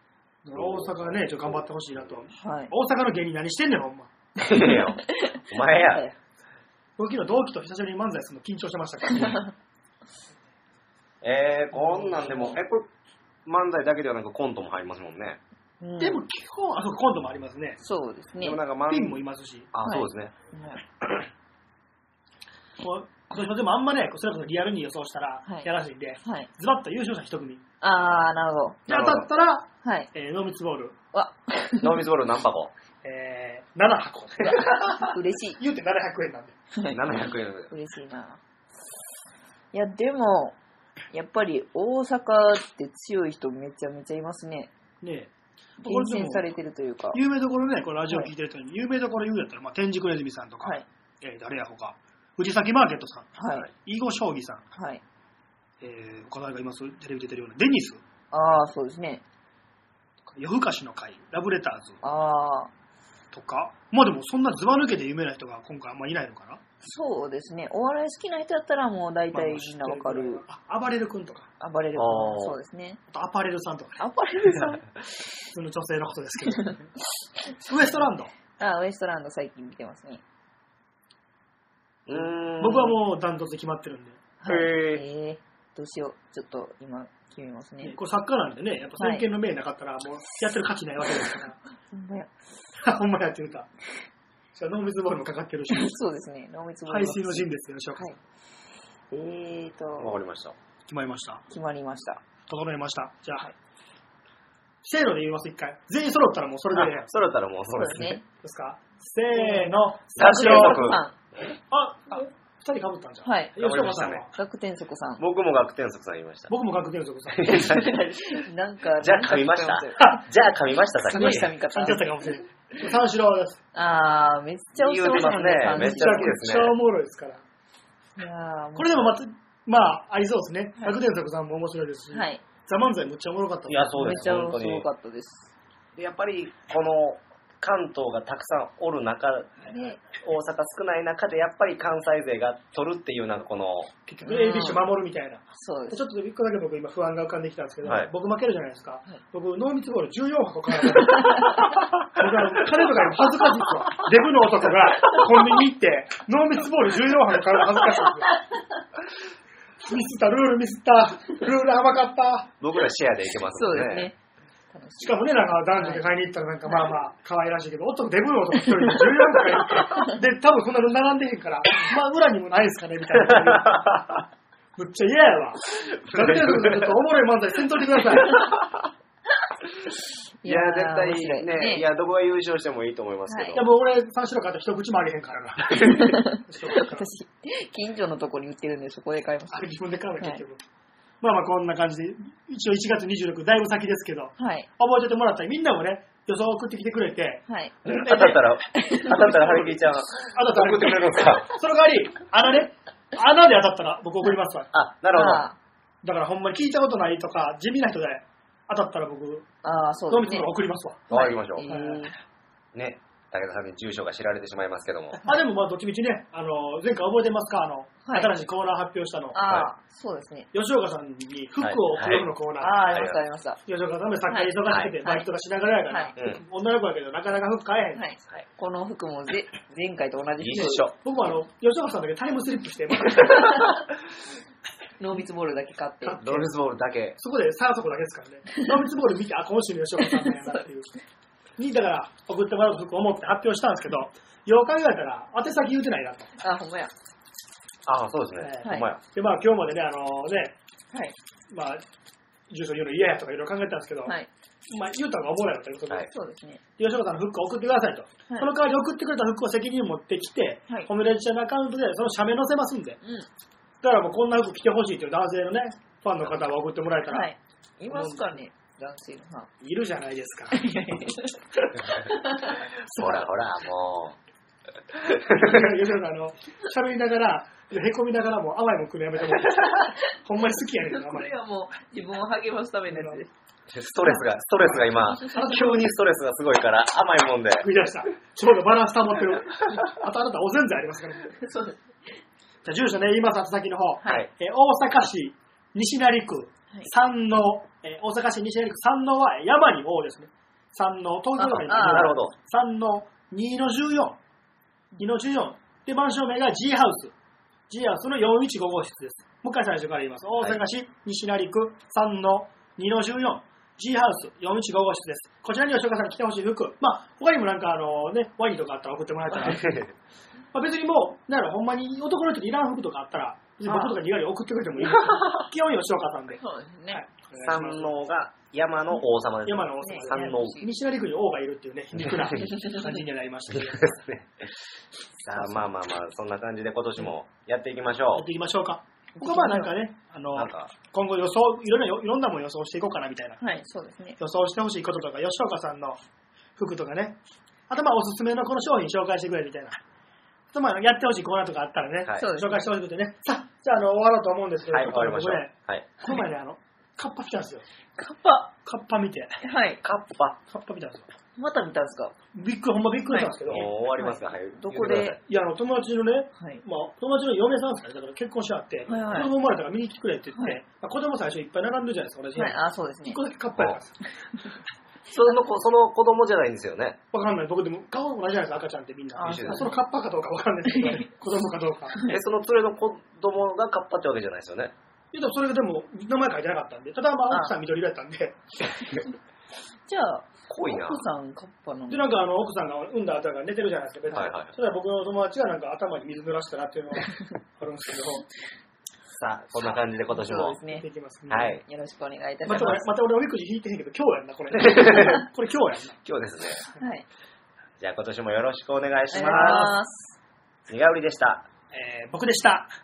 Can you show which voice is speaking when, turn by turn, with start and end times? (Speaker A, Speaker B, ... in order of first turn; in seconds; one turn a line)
Speaker A: 0.4-4.1
Speaker B: 0.5-2.2
Speaker C: 2.4-2.7
Speaker B: 4.4-6.0
Speaker C: 4.5-6.1
Speaker A: 7.0-9.4
Speaker C: 9.1-9.5
Speaker B: 11.2-12.9
Speaker C: 11.7-12.5
Speaker B: 13.4-15.4
Speaker C: 15.8-16.2
Speaker A: 16.0-17.8
Speaker C: 17.8-18.6
Speaker B: 18.4-19.2
Speaker A: 18.9-19.7
Speaker B: 19.7-20.3
Speaker C: 19.8-20.8
Speaker A: 22.8-27.6
Speaker C: 26.2-26.5
Speaker C: 27.8-28.9
Speaker A: 28.9-30.9
Speaker B: 28.9-29.3
Speaker C: 29.8-30.1
Speaker C: 31.1-32.0
Speaker B: 31.8-32.7
Speaker A: 33.0-36.5
Speaker C: 34.4-35.6
Speaker C: 36.7-38.4
Speaker B: 36.9-37.7
Speaker C: 39.7-40.5
Speaker C: 41.1-44.7
Speaker A: 45.0-45.3
Speaker A: 45.8-46.5
Speaker C: 45.8-47.2
Speaker A: 47.1-54.6
Speaker C: 53.4-53.7
Speaker C: 54.7-55.0
Speaker A: 55.8-58.0
Speaker C: 58.3-59.2
Speaker A: 60.3-62.0
Speaker C: 62.0-62.7
Speaker A: 63.3-66.6
Speaker C: 66.8-70.4
Speaker A: 69.3-71.5
Speaker C: 71.6-73.0
Speaker B: 72.0-72.6
Speaker A: 73.1-74.0
Speaker C: 74.0-74.9
Speaker A: 75.5-76.9
Speaker A: 77.6-78.3
Speaker C: 78.6-80.2
Speaker B: 82.1-83.0
Speaker A: 82.6-84.2
Speaker C: 84.4-88.0
Speaker B: 84.4-85.0
Speaker A: 87.8-91.6
Speaker C: 89.0-89.2
Speaker C: 91.9-92.3
Speaker A: 92.8-93.7
Speaker A: 94.5-96.0
Speaker C: 95.7-98.2
Speaker A: 96.9-98.1
Speaker C: 99.1-100.2
Speaker B: 100.0-100.5
Speaker A: 100.9-101.4
Speaker C: 101.5-102.2
Speaker A: 102.5-103.5
Speaker A: 104.8-107.1
Speaker B: 106.7-108.2
Speaker C: 107.8-108.2
Speaker A: 108.4-110.9
Speaker C: 109.3-111.2
Speaker B: 110.2-111.0
Speaker A: 111.7-114.3
Speaker C: 113.2-113.5
Speaker B: 113.6-114.2
Speaker C: 114.3-115.2
Speaker B: 115.2-116.5
Speaker A: 116.5-117.6
Speaker B: 117.3-118.4
Speaker C: 117.5-120.2
Speaker B: 119.0-122.0
Speaker C: 121.1-122.8
Speaker A: 121.1-123.6
Speaker C: 123.7-126.4
Speaker B: 124.8-126.8
Speaker A: 125.6-127.4
Speaker C: 128.2-129.1
Speaker A: 128.7-134.1
Speaker C: 132.1-132.4
Speaker B: 133.7-134.8
Speaker C: 133.9-135.5
Speaker B: 135.9-143.9
Speaker C: 139.7-140.0
Speaker A: 144.1-158.3
Speaker C: 144.3-144.8
Speaker C: 145.5-146.0
Speaker B: 147.8-148.1
Speaker C: 151.3-151.6
Speaker A: 159.8-162.5
Speaker B: 162.6-164.1
Speaker C: 163.5-164.2
Speaker C: 164.7-166.1
Speaker A: 165.0-174.1
Speaker B: 173.2-174.1
Speaker A: 174.8-178.4
Speaker B: 175.8-177.0
Speaker C: 180.4-181.8
Speaker B: 180.4-183.7
Speaker C: 183.3-183.6
Speaker A: 183.5-187.1
Speaker C: 185.7-190.4
Speaker A: 189.5-190.6
Speaker A: 191.2-197.4
Speaker C: 194.4-194.7
Speaker C: 197.5-199.4
Speaker B: 197.9-201.5
Speaker A: 199.2-199.8
Speaker A: 200.3-204.7
Speaker B: 204.7-205.4
Speaker C: 205.1-205.6
Speaker A: 206.0-209.5
Speaker C: 209.6-210.5
Speaker A: 210.1-211.0
Speaker C: 211.1-212.2
Speaker B: 211.1-211.7
Speaker A: 211.7-212.0
Speaker B: 212.7-215.2
Speaker A: 215.2-219.4
Speaker C: 218.0-218.3
Speaker C: 219.3-220.5
Speaker A: 220.5-222.8
Speaker B: 221.6-222.3
Speaker C: 222.6-223.6
Speaker B: 222.8-223.2
Speaker A: 223.7-228.0
Speaker C: 224.3-225.3
Speaker B: 224.6-224.9
Speaker B: 226.2-226.4
Speaker C: 227.9-230.8
Speaker B: 230.4-230.9
Speaker A: 231.0-233.8
Speaker C: 233.4-233.8
Speaker C: 235.0-236.2
Speaker A: 236.0-236.5
Speaker B: 236.2-237.2
Speaker A: 237.2-240.9
Speaker C: 240.0-240.6
Speaker A: 241.6-246.3
Speaker C: 246.4-246.9
Speaker B: 247.8-249.0
Speaker A: 248.4-250.6
Speaker C: 248.6-248.9
Speaker A: 251.5-251.8
Speaker A: 252.5-254.1
Speaker A: 254.7-256.1
Speaker C: 256.1-256.6
Speaker A: 256.8-263.0
Speaker A: 263.8-267.3
Speaker C: 267.1-269.5
Speaker A: 267.9-268.4
Speaker A: 269.6-270.6
Speaker C: 270.5-271.4
Speaker C: 271.9-272.6
Speaker A: 272.9-273.2
Speaker B: 272.9-274.2
Speaker B: 275.0-275.6
Speaker A: 275.2-281.3
Speaker C: 279.5-280.0
Speaker C: 280.9-283.3
Speaker A: 282.9-283.2
Speaker B: 283.7-287.7
Speaker C: 285.1-285.6
Speaker A: 285.1-285.8
Speaker A: 287.6-291.4
Speaker C: 291.3-291.8
Speaker A: 292.6-304.2
Speaker C: 294.0-294.3
Speaker C: 301.4-302.2
Speaker B: 301.5-302.3
Speaker A: 305.0-307.1
Speaker A: 307.7-319.6
Speaker B: 319.4-319.9
Speaker A: 320.5-327.9
Speaker C: 323.6-324.0
Speaker C: 326.4-327.0
Speaker B: 327.4-330.6
Speaker A: 329.4-333.9
Speaker C: 329.8-330.7
Speaker C: 332.5-332.7
Speaker B: 333.5-334.6
Speaker B: 335.2-338.3
Speaker A: 338.1-343.4
Speaker C: 339.1-339.7
Speaker B: 340.3-340.7
Speaker C: 343.4-344.2
Speaker A: 344.2-346.0
Speaker A: 346.6-347.2
Speaker A: 347.7-349.8
Speaker A: 350.5-357.6
Speaker C: 352.1-352.6
Speaker B: 354.7-355.9
Speaker C: 358.0-358.5
Speaker A: 358.5-359.4
Speaker C: 359.4-359.8
Speaker B: 359.8-360.4
Speaker A: 360.5-361.1
Speaker C: 361.4-362.1
Speaker A: 362.3-363.6
Speaker C: 363.1-365.2
Speaker B: 363.4-365.2
Speaker A: 365.2-374.0
Speaker C: 366.4-366.6
Speaker C: 368.9-369.3
Speaker C: 372.3-373.2
Speaker B: 375.1-377.0
Speaker A: 377.1-382.0
Speaker C: 379.1-379.7
Speaker B: 379.2-379.7
Speaker C: 380.7-381.0
Speaker B: 382.0-384.7
Speaker A: 385.1-388.4
Speaker C: 389.9-392.1
Speaker B: 390.5-391.0
Speaker A: 391.9-398.2
Speaker B: 394.1-394.5
Speaker B: 399.1-400.6
Speaker C: 400.1-400.9
Speaker A: 400.7-401.6
Speaker B: 401.3-401.6
Speaker C: 401.6-402.9
Speaker A: 402.4-406.0
Speaker B: 404.5-405.2
Speaker B: 406.0-406.6
Speaker C: 406.8-407.1
Speaker B: 407.8-409.7
Speaker C: 409.1-410.1
Speaker A: 409.2-409.7
Speaker B: 410.7-411.5
Speaker A: 411.7-412.7